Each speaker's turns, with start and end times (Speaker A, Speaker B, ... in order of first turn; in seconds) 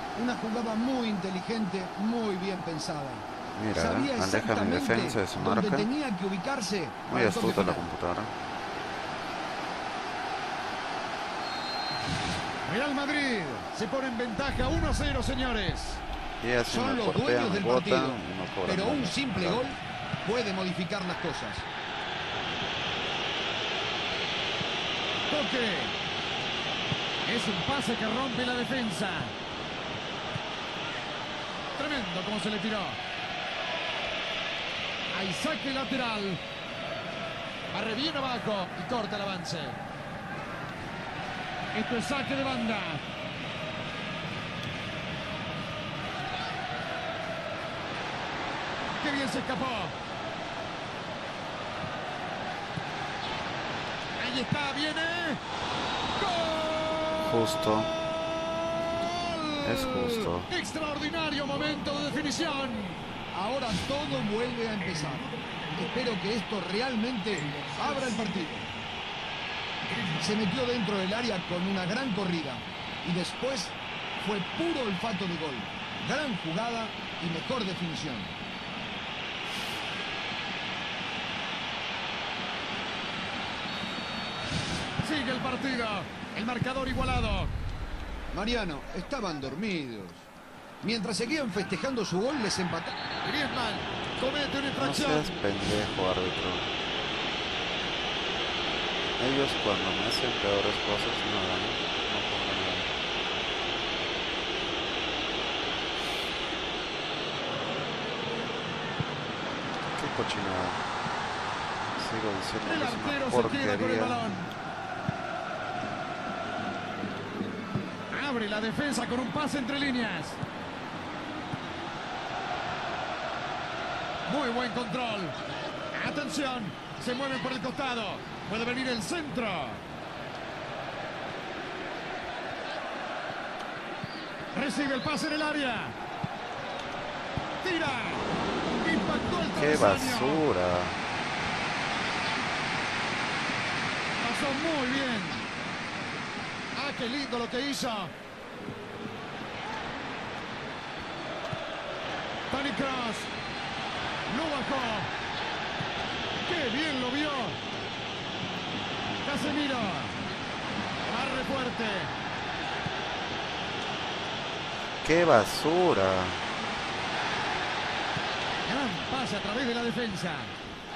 Speaker A: 0.1-7.9, 16.7-21.7, 63.3-68.7, 70.2-78.3, 88.3-90.3, 90.8-93.0
Speaker B: 3.6-5.9, 7.1-8.3, 16.4-19.6, 57.3-57.9, 59.6-60.5, 94.8-96.7, 99.2-102.9, 109.9-110.8, 112.0-114.2, 139.5-141.0, 165.0-166.4
Speaker C: 12.7-16.0, 25.3-26.0, 27.2-29.3, 31.8-33.0, 35.1-36.4, 37.7-39.8, 41.7-43.0, 48.9-50.0, 54.2-55.4, 56.2-57.3, 59.0-63.0, 85.0-87.5, 93.2-95.4, 112.6-114.5, 118.1-120.4, 124.3-125.4, 125.9-129.8, 134.5-136.0, 137.6-138.3, 138.8-140.4, 144.2-145.4, 146.8-148.1, 152.5-153.3, 154.3-155.1, 156.4-157.6, 159.2-160.2, 161.0-162.1, 168.7-170.6